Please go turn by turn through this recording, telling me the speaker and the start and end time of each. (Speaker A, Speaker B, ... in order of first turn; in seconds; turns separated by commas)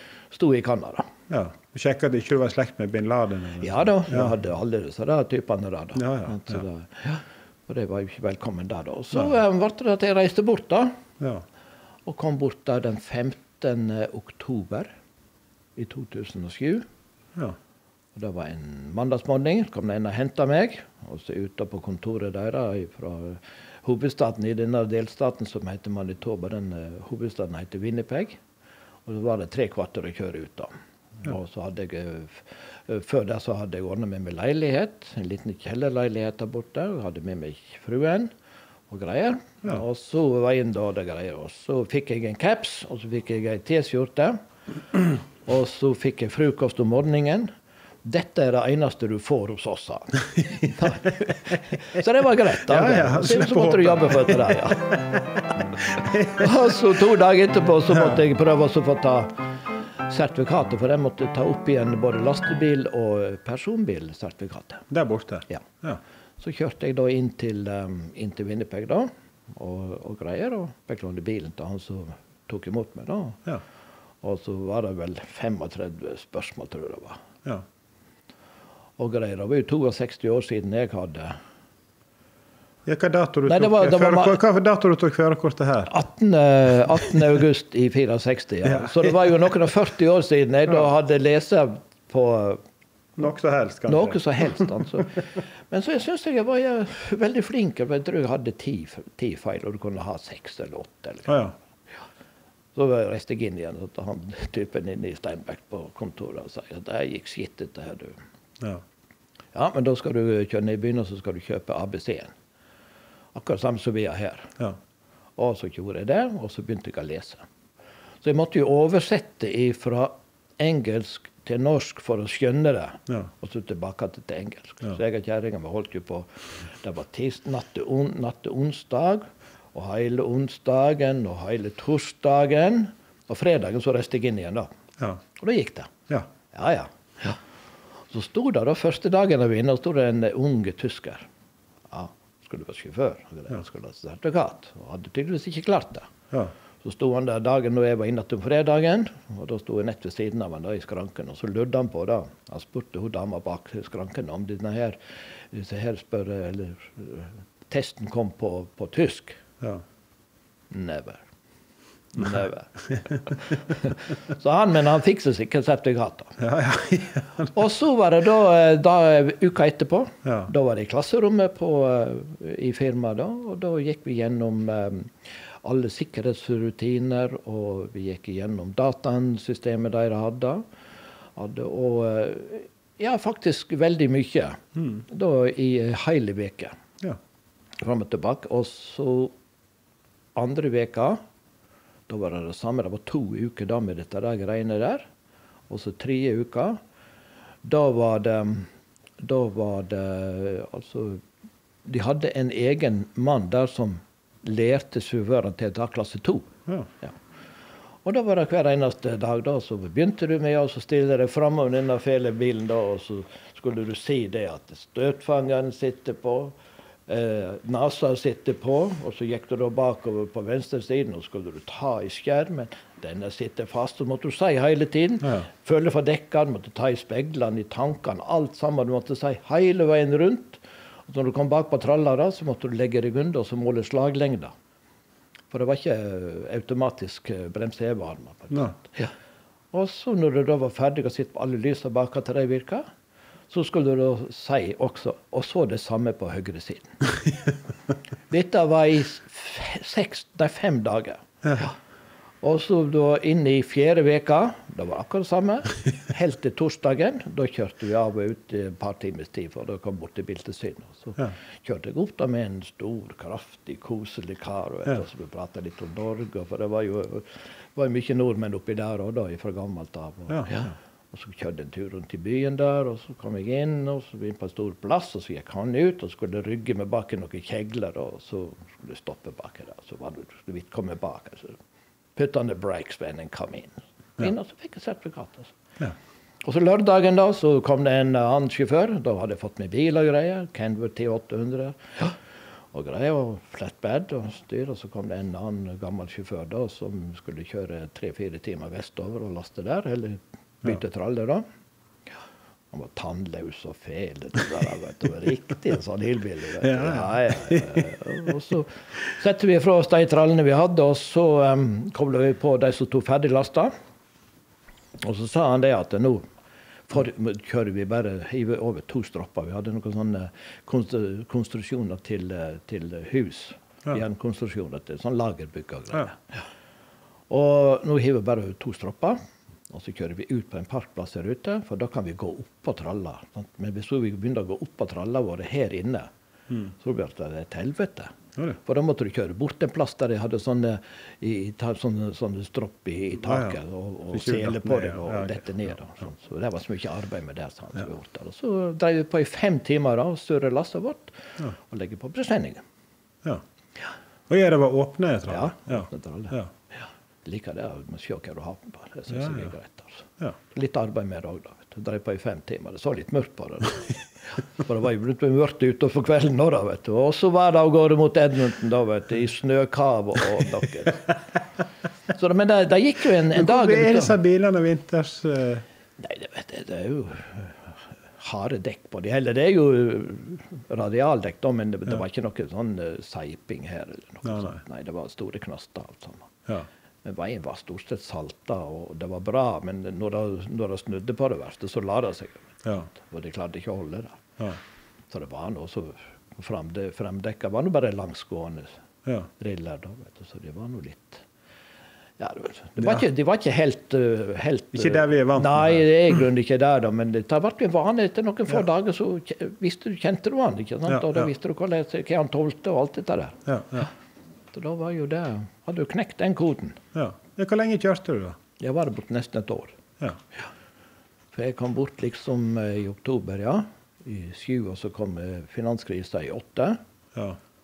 Speaker A: 0.3-1.1, Speaker B: 1.3-4.3, Speaker A: 3.6-11.0, Speaker B: 6.0-6.6, Speaker B: 11.2-11.4, Speaker A: 12.1-14.9, Speaker A: 15.8-16.9, Speaker A: 18.1-28.4, Speaker A: 29.1-38.3, Speaker A: 38.9-44.4, Speaker A: 45.4-47.5, Speaker A: 48.0-55.0, Speaker B: 52.7-56.7, Speaker A: 56.3-59.4, Speaker A: 60.1-64.9, Speaker B: 64.9-66.0, Speaker A: 66.4-73.4, Speaker A: 74.2-77.2, Speaker A: 79.0-81.4, Speaker B: 82.8-85.9, Speaker A: 83.5-84.4, Speaker A: 85.9-92.6, Speaker B: 88.7-89.2, Speaker B: 93.2-94.7, Speaker A: 93.9-101.4, Speaker B: 101.3-101.5, Speaker A: 102.7-108.2, Speaker A: 109.5-112.3, Speaker A: 113.3-114.6, Speaker A: 115.4-117.5, Speaker A: 118.2-134.7, Speaker A: 135.3-135.9, Speaker A: 136.5-137.4, Speaker A: 138.1-141.3, Speaker A: 141.9-146.1, Speaker A: 146.8-159.4, Speaker A: 160.7-161.2, Speaker A: 162.1-166.4, Speaker B: 166.4-167.5, Speaker A: 167.5-180.6, Speaker B: 170.2-170.5, Speaker A: 181.3-186.8, Speaker B: 184.8-185.0, Speaker A: 187.8-189.3, Speaker A: 190.3-191.2, Speaker A: 192.1-195.1, Speaker A: 195.7-196.8, Speaker A: 197.6-201.2, Speaker A: 201.8-207.2, Speaker A: 208.0-234.5, Speaker A: 235.5-239.1, Speaker A: 239.7-242.8, Speaker A: 243.5-247.0, Speaker A: 248.3-251.7, Speaker A: 252.4-281.6, Speaker B: 270.3-270.6, Speaker A: 282.1-285.5, Speaker A: 286.4-292.1, Speaker A: 292.7-301.4, Speaker A: 302.7-313.7, Speaker B: 306.6-307.9, Speaker A: 315.0-316.2, Speaker A: 316.9-326.4, Speaker A: 327.3-336.1, Speaker A: 336.8-352.6, Speaker B: 343.3-343.6, Speaker B: 344.1-345.6, Speaker B: 354.3-356.5, Speaker A: 355.3-356.4, Speaker A: 357.2-371.1, Speaker B: 359.1-359.5, Speaker A: 372.1-374.1, Speaker B: 373.3-375.6, Speaker A: 376.0-386.4, Speaker B: 384.2-384.6, Speaker A: 387.0-394.2, Speaker A: 395.1-398.8, Speaker A: 399.4-401.2, Speaker A: 402.2-413.4, Speaker B: 402.8-403.0, Speaker B: 404.7-405.9, Speaker B: 410.9-411.3, Speaker B: 413.5-413.9, Speaker A: 414.5-416.8, Speaker B: 416.9-418.4, Speaker A: 418.6-419.8, Speaker A: 421.3-426.8, Speaker B: 427.1-427.4